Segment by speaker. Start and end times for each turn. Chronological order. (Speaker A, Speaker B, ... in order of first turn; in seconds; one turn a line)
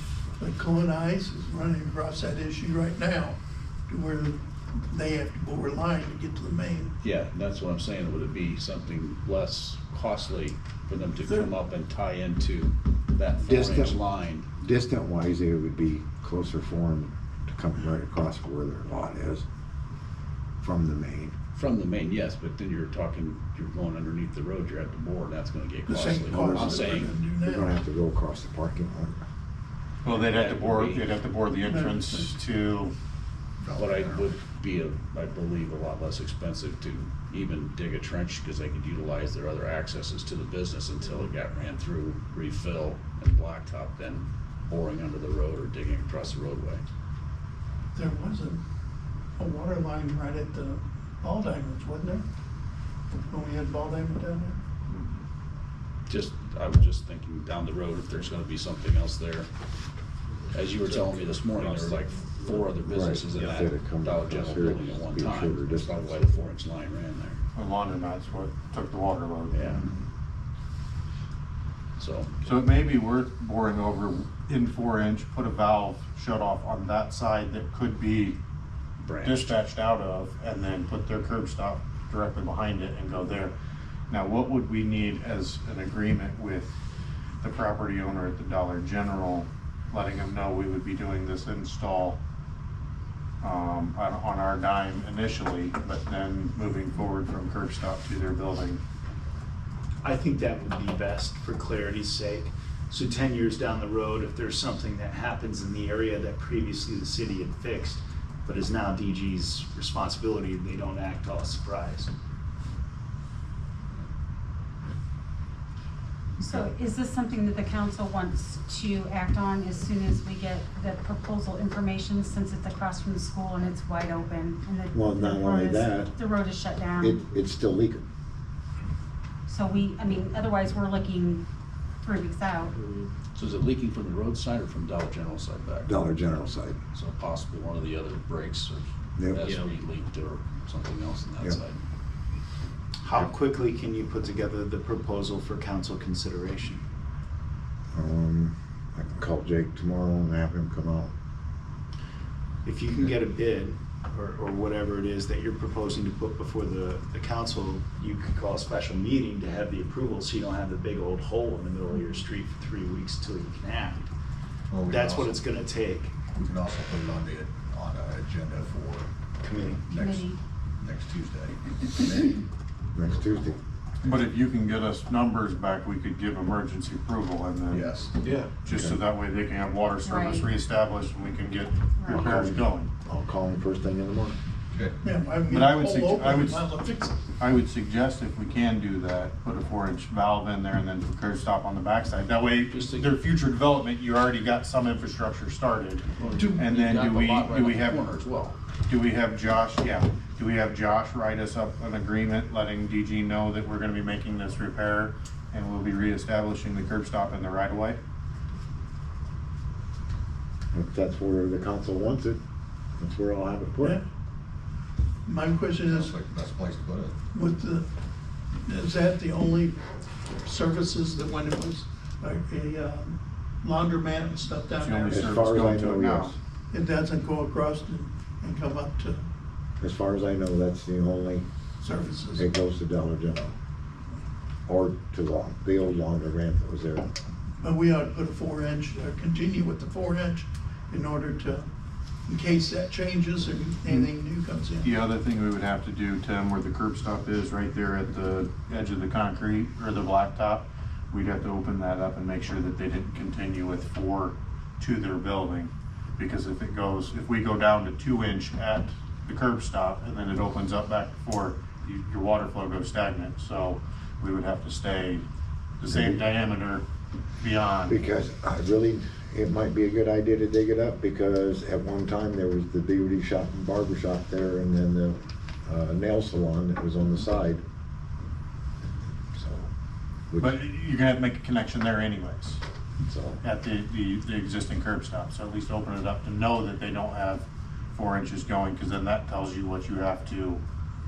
Speaker A: 0.4-3.4
Speaker A: 3.9-7.0
Speaker B: 7.0-14.5
Speaker C: 13.4-14.0
Speaker C: 14.6-19.4
Speaker C: 20.6-21.4
Speaker B: 21.5-27.1
Speaker A: 25.9-27.7
Speaker C: 26.4-26.8
Speaker C: 27.4-29.2
Speaker D: 30.0-32.9
Speaker B: 30.1-31.1
Speaker A: 31.5-32.3
Speaker E: 33.6-34.4
Speaker B: 33.8-46.8
Speaker A: 47.9-48.6
Speaker A: 49.4-52.3
Speaker A: 53.3-54.6
Speaker D: 54.9-55.2
Speaker B: 56.1-59.5
Speaker B: 60.5-67.4
Speaker F: 60.8-62.6
Speaker C: 62.9-66.2
Speaker D: 67.5-69.9
Speaker B: 69.5-69.9
Speaker B: 72.0-72.5
Speaker D: 72.4-78.4
Speaker B: 79.0-79.6
Speaker D: 79.2-83.5
Speaker D: 84.1-86.7
Speaker D: 87.4-92.2
Speaker D: 93.4-98.8
Speaker G: 100.0-112.1
Speaker H: 116.4-127.2
Speaker C: 124.9-126.1
Speaker C: 127.0-128.1
Speaker H: 129.5-131.4
Speaker H: 132.0-132.8
Speaker F: 132.8-133.1
Speaker B: 133.3-135.9
Speaker C: 135.8-136.8
Speaker B: 136.9-141.8
Speaker C: 139.2-139.5
Speaker G: 143.0-146.8
Speaker C: 147.9-151.1
Speaker G: 152.6-164.1
Speaker E: 164.7-165.5
Speaker G: 164.8-166.3
Speaker E: 166.3-170.3
Speaker G: 169.4-169.8
Speaker H: 169.9-170.4
Speaker E: 170.8-172.5
Speaker C: 172.9-173.6
Speaker D: 174.0-177.9
Speaker E: 177.7-178.1
Speaker F: 178.2-178.5
Speaker D: 178.7-182.9
Speaker C: 178.7-179.0
Speaker H: 180.1-180.5
Speaker H: 182.0-182.3
Speaker C: 182.1-184.4
Speaker A: 185.0-187.2
Speaker D: 185.5-186.6
Speaker D: 187.4-196.1
Speaker B: 192.7-193.1
Speaker B: 196.2-198.6
Speaker A: 196.3-196.7
Speaker D: 196.6-198.0
Speaker D: 198.9-208.0
Speaker C: 210.7-212.4
Speaker C: 213.0-214.0
Speaker A: 215.3-216.1
Speaker E: 215.9-217.2
Speaker A: 217.3-217.9
Speaker A: 218.7-219.8
Speaker A: 220.4-225.3
Speaker D: 224.8-226.3
Speaker C: 225.1-226.3
Speaker A: 226.7-229.3
Speaker C: 229.8-231.4
Speaker A: 231.8-232.5
Speaker C: 232.4-233.6
Speaker C: 234.7-237.1
Speaker A: 237.6-241.7
Speaker A: 242.3-244.9
Speaker D: 244.8-265.2
Speaker D: 265.8-266.8
Speaker C: 265.9-266.2
Speaker D: 267.4-268.0
Speaker C: 267.9-277.6
Speaker C: 279.4-279.7
Speaker C: 280.3-280.6
Speaker D: 280.4-282.6
Speaker C: 283.0-283.4
Speaker D: 283.4-287.4
Speaker D: 287.9-290.6